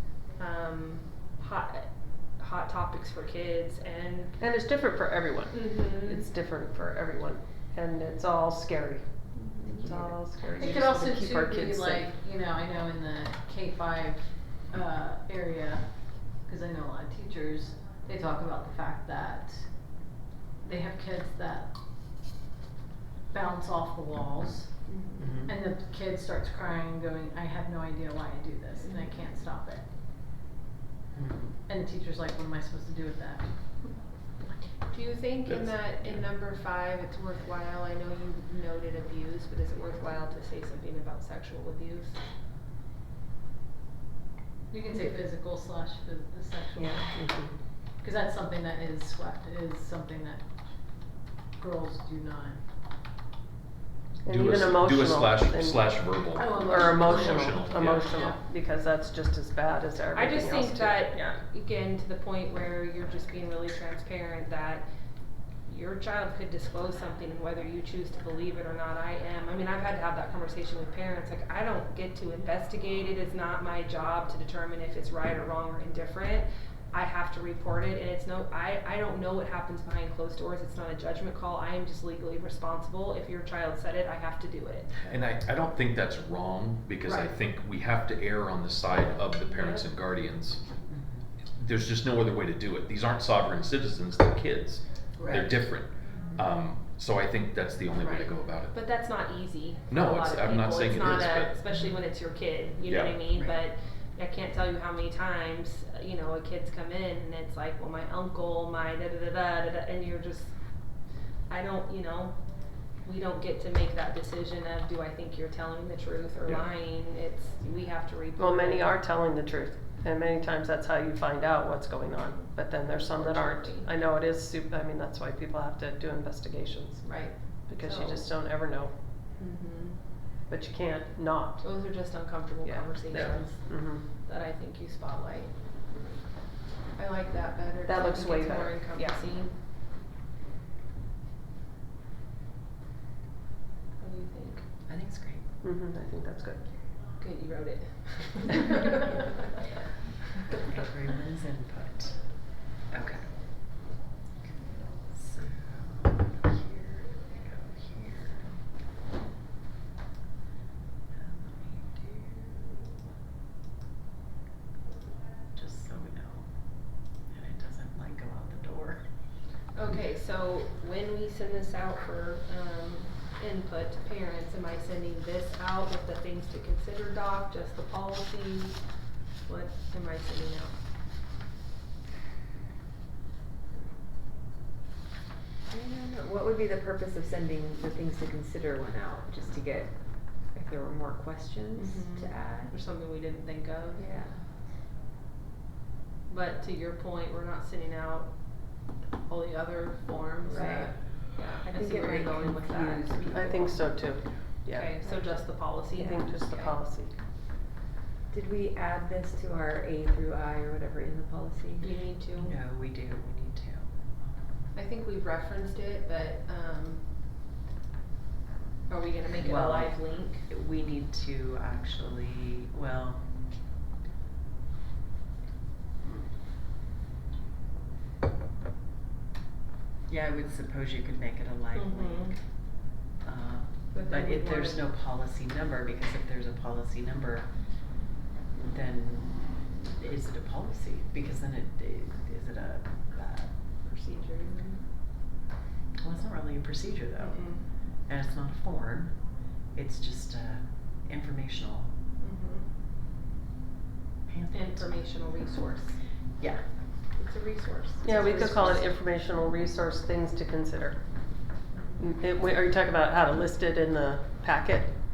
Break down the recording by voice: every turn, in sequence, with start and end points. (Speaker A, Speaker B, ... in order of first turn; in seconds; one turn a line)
Speaker A: 0.3-4.3
Speaker B: 4.4-9.1
Speaker A: 5.5-6.3
Speaker A: 9.3-10.1
Speaker B: 9.8-12.1
Speaker C: 10.6-15.9
Speaker C: 16.4-19.7
Speaker C: 20.6-21.7
Speaker C: 23.3-29.8
Speaker A: 24.9-25.4
Speaker D: 25.2-25.5
Speaker A: 28.8-29.2
Speaker D: 31.1-31.5
Speaker C: 31.6-33.9
Speaker A: 34.9-42.2
Speaker E: 35.5-36.3
Speaker C: 44.7-47.1
Speaker B: 46.8-47.5
Speaker C: 48.0-50.4
Speaker C: 51.6-52.6
Speaker B: 54.2-55.9
Speaker E: 54.2-58.1
Speaker C: 56.3-58.4
Speaker B: 56.6-61.4
Speaker A: 60.1-64.8
Speaker A: 65.7-84.9
Speaker E: 85.0-90.6
Speaker A: 89.5-89.8
Speaker D: 90.9-91.2
Speaker E: 91.5-98.8
Speaker C: 95.2-95.5
Speaker A: 98.7-110.5
Speaker E: 99.9-101.6
Speaker E: 102.8-103.2
Speaker A: 111.5-112.3
Speaker A: 113.0-118.9
Speaker B: 118.4-127.2
Speaker A: 122.7-123.9
Speaker A: 127.0-128.2
Speaker B: 127.7-128.9
Speaker A: 129.4-130.0
Speaker B: 130.5-131.7
Speaker A: 131.6-133.5
Speaker B: 132.6-134.0
Speaker A: 134.2-135.5
Speaker A: 136.9-139.5
Speaker B: 137.8-139.2
Speaker A: 144.0-144.7
Speaker D: 144.9-145.4
Speaker B: 145.6-146.6
Speaker A: 147.2-149.5
Speaker D: 150.7-152.2
Speaker D: 152.9-153.3
Speaker D: 155.1-158.6
Speaker D: 161.1-163.0
Speaker D: 165.5-166.5
Speaker D: 167.3-169.0
Speaker A: 169.7-178.8
Speaker A: 179.4-180.8
Speaker F: 185.7-192.7
Speaker A: 191.8-194.0
Speaker F: 193.9-194.4
Speaker A: 196.3-198.3
Speaker A: 199.2-203.6
Speaker F: 200.4-200.9
Speaker F: 201.6-203.7
Speaker B: 203.3-205.0
Speaker A: 204.7-206.8
Speaker B: 205.9-207.1
Speaker F: 208.3-211.9
Speaker A: 211.8-212.6
Speaker D: 212.3-214.4
Speaker A: 214.7-217.0
Speaker A: 218.9-220.4
Speaker D: 219.4-223.2
Speaker D: 230.1-232.3
Speaker A: 231.7-232.3
Speaker D: 233.2-237.5
Speaker A: 233.9-234.9
Speaker D: 238.6-243.6
Speaker A: 243.8-244.8
Speaker D: 246.0-249.1
Speaker A: 247.2-247.6
Speaker D: 249.7-251.9
Speaker A: 252.2-252.7
Speaker D: 254.3-254.8
Speaker A: 254.5-256.0
Speaker A: 257.2-258.8
Speaker B: 258.0-261.0
Speaker B: 262.0-264.9